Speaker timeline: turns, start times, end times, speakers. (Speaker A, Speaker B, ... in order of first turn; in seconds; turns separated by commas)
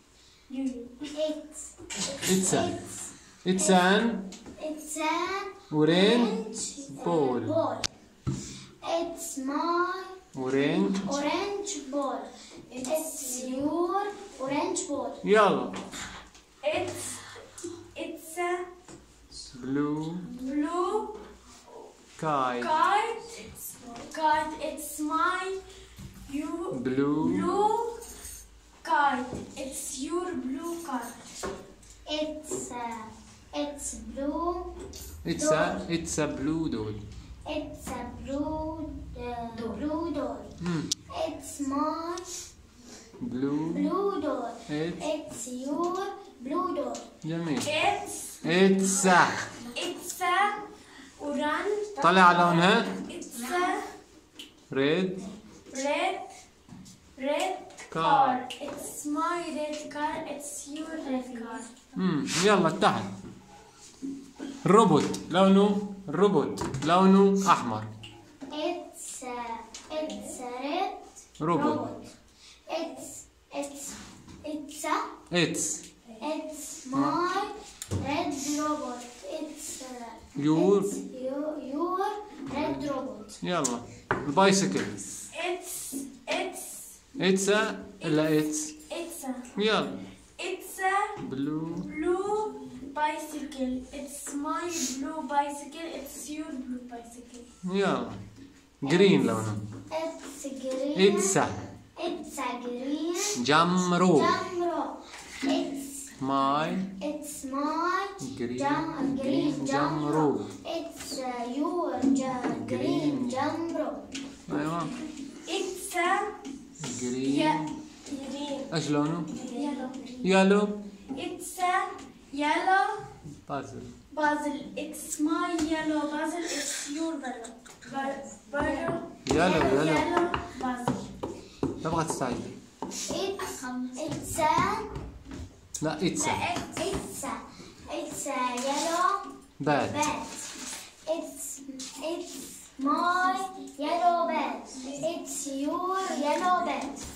Speaker A: 0.5-1.1, Speaker B: 1.1-3.9, Speaker C: 2.2-2.8, Speaker C: 3.4-4.3, Speaker B: 4.6-7.9, Speaker C: 5.7-7.6, Speaker B: 8.8-10.2, Speaker C: 10.3-11.2, Speaker B: 11.0-12.3, Speaker A: 12.8-13.6, Speaker B: 12.8-15.2, Speaker C: 15.2-15.8, Speaker A: 16.6-17.4, Speaker A: 17.9-18.7, Speaker C: 19.5-20.3, Speaker A: 20.3-21.2, Speaker C: 22.2-22.8, Speaker A: 22.6-25.6, Speaker A: 26.3-28.0, Speaker C: 26.7-27.5, Speaker A: 28.8-31.2, Speaker B: 32.1-34.7, Speaker C: 35.2-37.1, Speaker B: 35.4-35.8, Speaker B: 37.5-40.5, Speaker C: 40.6-40.9, Speaker B: 41.1-42.3, Speaker C: 43.2-43.9, Speaker B: 43.7-47.1, Speaker C: 44.7-45.0, Speaker C: 47.2-47.7, Speaker A: 47.6-48.5, Speaker C: 48.4-49.5, Speaker A: 49.6-53.9, Speaker C: 52.0-53.0, Speaker C: 54.7-55.3, Speaker A: 55.7-56.3, Speaker A: 57.1-61.7, Speaker C: 57.9-58.4, Speaker B: 61.1-61.6, Speaker C: 62.0-63.1, Speaker C: 64.6-67.9, Speaker B: 68.5-72.1, Speaker C: 71.4-71.9, Speaker B: 72.7-75.0, Speaker C: 75.3-75.8, Speaker B: 76.2-83.4, Speaker C: 76.9-77.2, Speaker C: 80.4-81.0, Speaker C: 82.5-82.9, Speaker C: 83.4-85.0, Speaker A: 85.3-87.0, Speaker C: 87.2-88.8, Speaker A: 88.0-89.5, Speaker C: 89.5-90.0, Speaker A: 90.4-91.2, Speaker C: 91.2-91.9, Speaker A: 91.8-97.5, Speaker C: 97.6-98.2, Speaker C: 98.8-99.6, Speaker B: 98.8-99.4, Speaker B: 99.9-101.4, Speaker C: 101.0-101.7, Speaker B: 102.0-103.4, Speaker C: 103.3-104.4, Speaker B: 104.1-106.2, Speaker C: 106.2-106.9, Speaker B: 107.0-114.1, Speaker C: 108.2-110.5, Speaker C: 112.5-113.4, Speaker C: 114.5-115.0, Speaker A: 115.4-116.4, Speaker C: 116.8-117.7, Speaker A: 117.2-118.7, Speaker C: 118.7-119.4, Speaker A: 119.3-120.2, Speaker B: 119.4-120.0, Speaker C: 120.2-120.8, Speaker A: 121.1-123.0, Speaker C: 123.5-124.0, Speaker A: 124.1-131.1, Speaker C: 129.2-130.1, Speaker C: 131.8-132.6, Speaker B: 133.1-134.9, Speaker C: 135.8-136.5, Speaker A: 136.2-136.9, Speaker B: 136.8-140.5, Speaker C: 139.6-140.0, Speaker B: 141.1-147.0